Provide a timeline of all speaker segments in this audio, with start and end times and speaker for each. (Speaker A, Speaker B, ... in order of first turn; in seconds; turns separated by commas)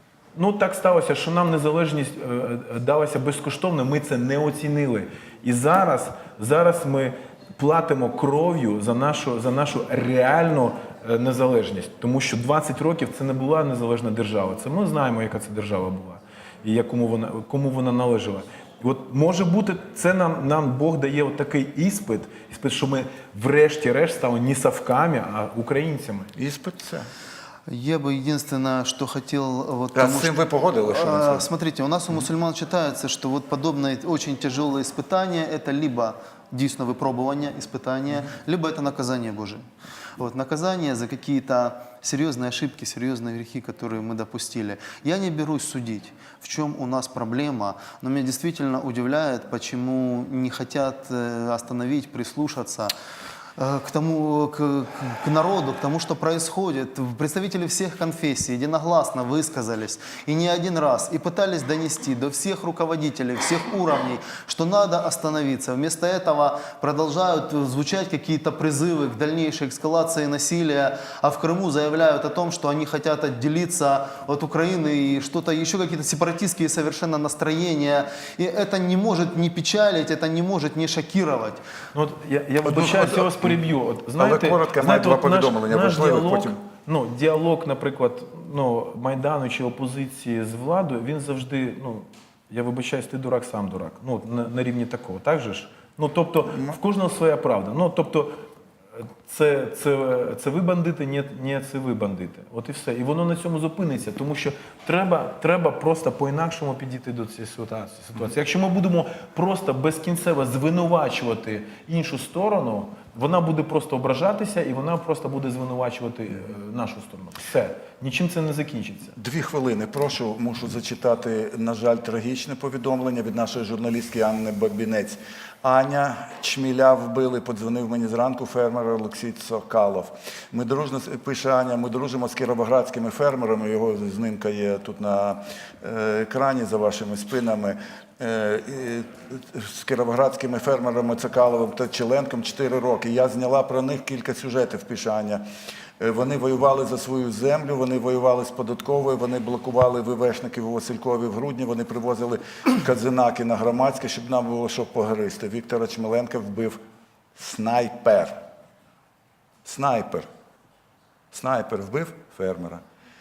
Speaker A: 0.3-26.3, Speaker B: 26.4-27.1, Speaker C: 27.7-39.6, Speaker B: 29.9-31.5, Speaker C: 40.2-52.9, Speaker C: 53.6-81.6, Speaker A: 81.9-98.4, Speaker B: 82.6-83.6, Speaker B: 84.2-86.6, Speaker A: 99.0-119.1, Speaker B: 119.2-145.4, Speaker B: 146.0-156.8, Speaker B: 157.3-158.4, Speaker B: 159.6-160.3, Speaker B: 161.3-162.8